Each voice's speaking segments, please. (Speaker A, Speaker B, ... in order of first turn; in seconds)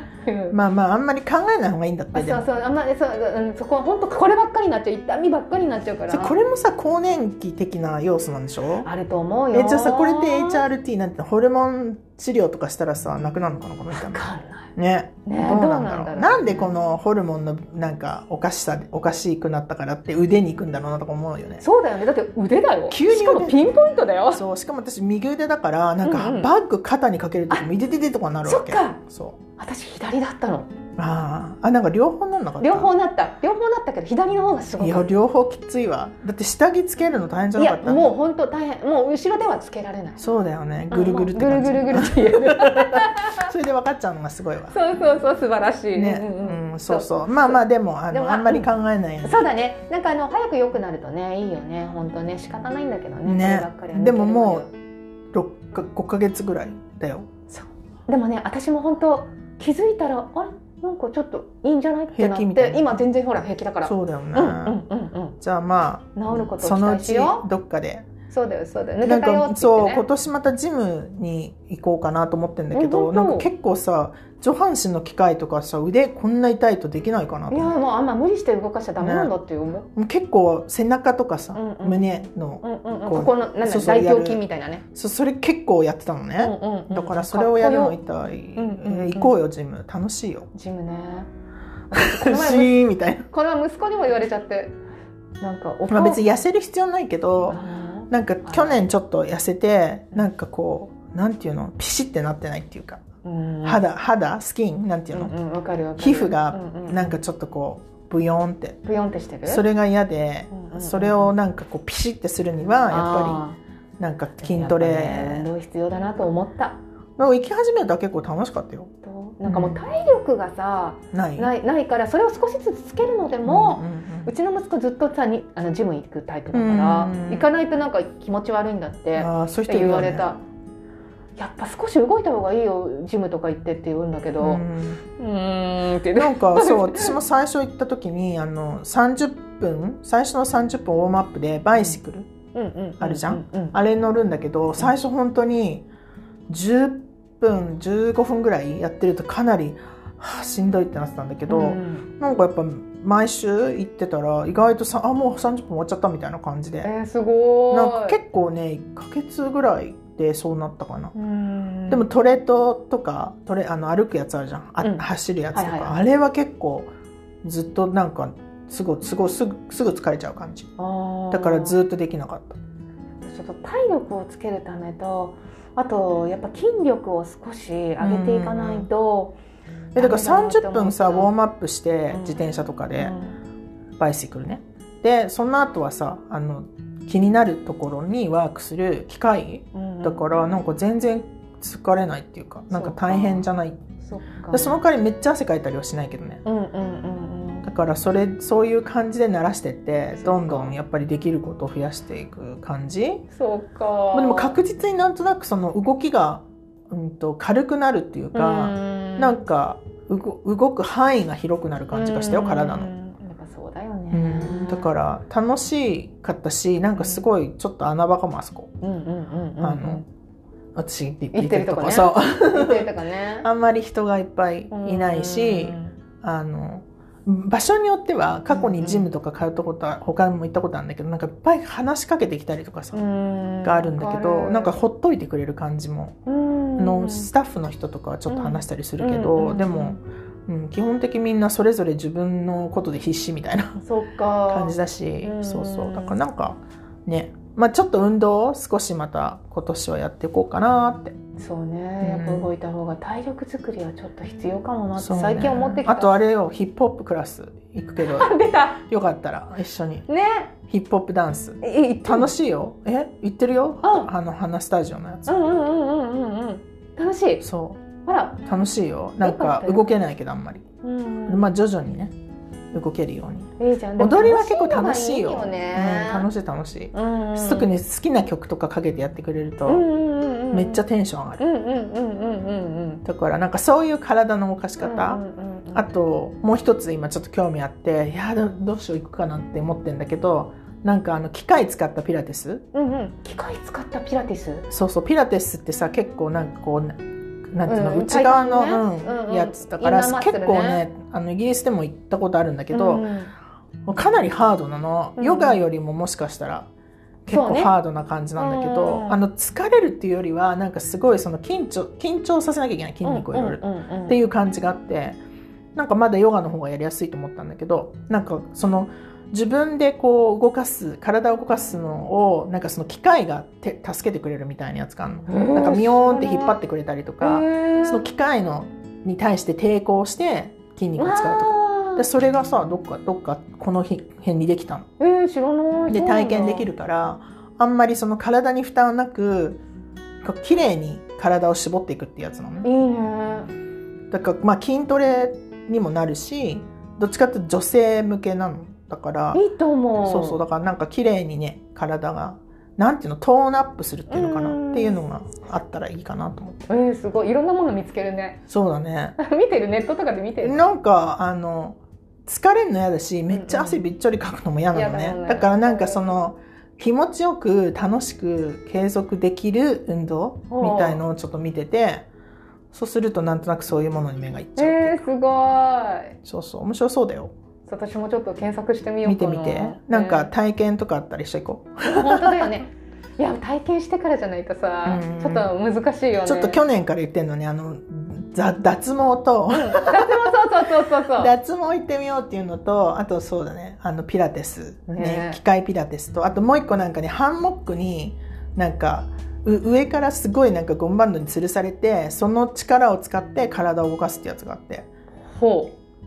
Speaker A: 0.2-0.6, 2.1-6.3, 8.8-10.7, 13.9-14.7, 15.2-16.8, 21.6-24.4, 26.0-26.5, 28.4-29.0, 29.6-30.7, 32.6-35.1, 37.6-40.2, 40.9-43.5, 44.7-48.7, 49.2-54.7, 57.5-65.4, 66.2-67.5, 68.3-70.1, 72.7-73.5, 77.5-79.9, 81.5-82.1, 82.6-84.8, 86.4-88.0, 88.6-89.3, 90.5-91.3, 91.9-92.8, 93.3-94.8, 95.4-96.2, 97.5-98.8, 103.2-103.8, 105.1-107.2, 108.8-109.6, 110.5-111.3, 112.9-113.6, 114.4-116.8, 119.0-130.4, 131.4-134.6, 135.2-137.2, 142.5-143.8, 151.5-152.1, 156.8-158.2, 161.2-162.1, 164.8-166.0, 170.8-171.8, 173.2-179.4, 180.0-181.3, 182.1-182.4, 183.0-183.4, 189.7-190.3, 192.7-193.5, 194.0-194.8, 196.4-197.7, 200.2-200.8, 203.3-204.6, 208.3-209.4, 211.9-214.9, 217.0-217.2, 218.8-220.1, 221.3-223.5, 224.7-226.0, 228.5-229.1, 232.9-234.8, 236.3-237.3, 238.3-240.0, 243.8-246.2, 251.4-256.2, 258.0-258.8, 260.1-260.5, 261.6-262.3, 263.8-264.1, 265.3-267.4, 268.1-268.5, 269.2-269.9, 270.8-271.5, 273.6-276.3, 276.9-277.8, 279.7-280.8, 281.4-283.0, 284.8-285.9, 292.7-294.7, 297.7-300.9, 302.7-303.3, 305.2-305.6, 307.3-307.7, 308.4-309.2, 313.0-314.2, 325.3-326.6, 327.2-328.1, 331.0-332.1, 335.0-336.7, 342.6-343.5, 349.3-350.4, 354.1-355.0, 356.7-358.4, 359.2-360.6, 363.3-363.8, 364.7-366.2, 370.5-371.0, 374.6-376.2, 377.7-380.3, 381.9-386.6, 389.5-391.3, 394.9-395.4, 405.3-405.7
Speaker B: 0.5-2.5, 6.1-8.9, 9.5-21.6, 22.9-23.7, 24.3-29.4, 31.0-32.9, 34.8-38.1, 40.2-44.8, 46.0-49.5, 53.2-54.7, 55.3-57.5, 62.1-62.9, 63.8-64.8, 65.4-68.1, 69.0-77.7, 79.0-79.3, 80.0-84.4, 84.9-90.5, 91.9-93.3, 95.9-103.0, 103.6-105.3, 106.0-108.8, 109.5-113.4, 114.0-115.5, 117.2-118.9, 119.5-119.8, 121.1-121.5, 123.5-124.3, 126.5-127.5, 129.2-130.3, 134.4-135.0, 136.2-142.3, 143.0-145.9, 146.5-156.9, 157.7-161.1, 161.9-166.9, 167.4-170.7, 171.3-172.6, 178.0-178.9, 179.9-183.1, 184.0-193.8, 194.5-196.4, 197.7-203.2, 204.1-212.9, 214.1-218.7, 219.6-220.0, 220.8-222.9, 223.4-233.0, 233.6-236.2, 236.8-243.8, 244.5-251.2, 252.0-252.5, 255.0-260.1, 260.7-265.4, 267.4-267.8, 268.5-270.6, 271.3-272.1, 272.7-279.9, 280.5-281.4, 283.1-285.2, 285.7-292.7, 294.7-297.0, 297.5-303.1, 303.9-306.7, 307.3-315.2, 315.8-334.9, 335.9-339.6, 340.2-342.7, 344.1-349.4, 350.0-356.6, 358.5-359.2, 360.4-372.1, 372.7-375.1, 376.2-377.3, 379.0-382.5, 384.9-385.5, 386.2-390.3, 391.1-404.9